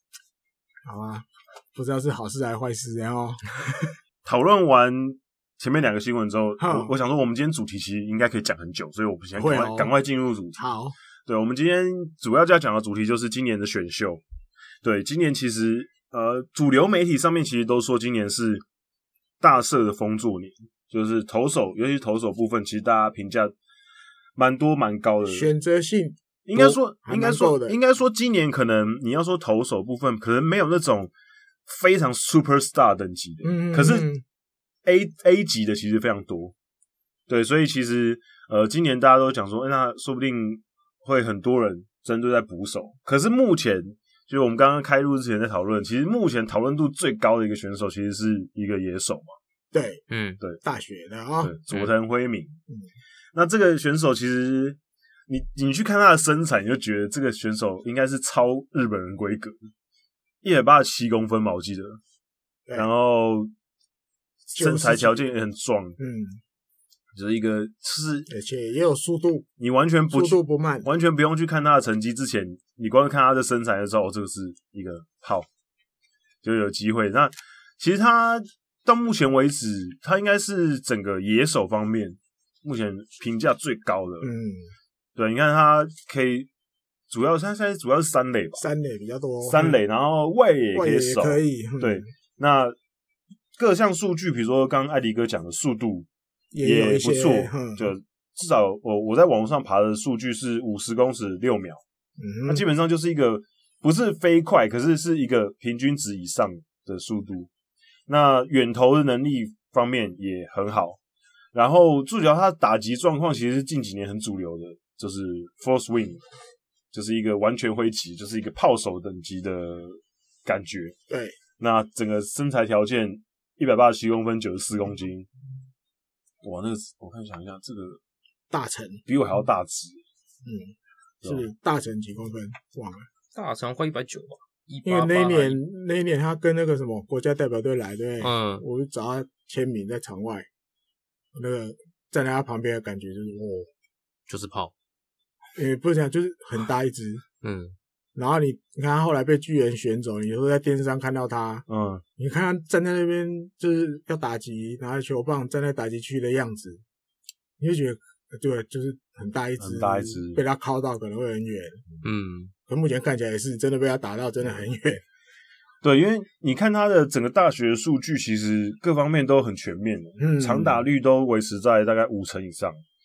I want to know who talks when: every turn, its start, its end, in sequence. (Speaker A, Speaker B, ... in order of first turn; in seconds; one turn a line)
Speaker A: 0.8-3.9
Speaker B: 4.2-10.6
Speaker A: 6.6-6.9
Speaker A: 9.4-9.9
Speaker A: 10.5-10.9
Speaker B: 11.3-14.2
Speaker B: 14.8-18.6
Speaker B: 19.4-23.5
Speaker B: 24.4-25.5
Speaker A: 25.3-27.8
Speaker B: 26.4-31.1
Speaker B: 31.7-34.1
Speaker A: 33.4-34.2
Speaker B: 34.9-36.5
Speaker B: 37.3-49.3
Speaker A: 49.7-50.0
Speaker C: 50.1-50.4
Speaker A: 50.6-51.5
Speaker B: 51.4-52.6
Speaker B: 53.3-59.6
Speaker B: 60.4-62.0
Speaker B: 62.7-63.5
Speaker B: 64.5-66.0
Speaker A: 64.5-65.2
Speaker A: 66.0-66.4
Speaker B: 67.1-68.3
Speaker A: 68.3-69.5
Speaker B: 69.6-75.5
Speaker A: 70.1-70.9
Speaker B: 76.4-84.3
Speaker A: 84.2-84.7
Speaker B: 85.2-86.5
Speaker B: 87.1-88.6
Speaker A: 88.6-89.8
Speaker B: 89.4-92.8
Speaker A: 90.7-92.0
Speaker B: 93.6-96.1
Speaker A: 96.5-97.9
Speaker B: 96.6-101.8
Speaker A: 102.2-102.6
Speaker B: 102.5-107.5
Speaker B: 108.1-111.0
Speaker B: 111.5-116.2
Speaker B: 116.9-121.0
Speaker A: 121.1-121.4
Speaker B: 121.6-125.3
Speaker B: 126.4-128.0
Speaker A: 128.5-129.0
Speaker B: 129.1-130.0
Speaker A: 130.4-133.1
Speaker B: 131.2-131.5
Speaker C: 133.3-135.6
Speaker A: 134.8-140.5
Speaker C: 138.2-138.6
Speaker A: 141.3-143.7
Speaker C: 144.3-144.7
Speaker A: 145.6-147.2
Speaker C: 147.4-147.7
Speaker A: 148.1-151.7
Speaker B: 151.7-152.0
Speaker A: 152.2-156.8
Speaker A: 157.6-161.8
Speaker B: 159.6-160.4
Speaker C: 162.0-162.5
Speaker A: 162.7-165.0
Speaker B: 165.8-172.8
Speaker A: 170.2-170.8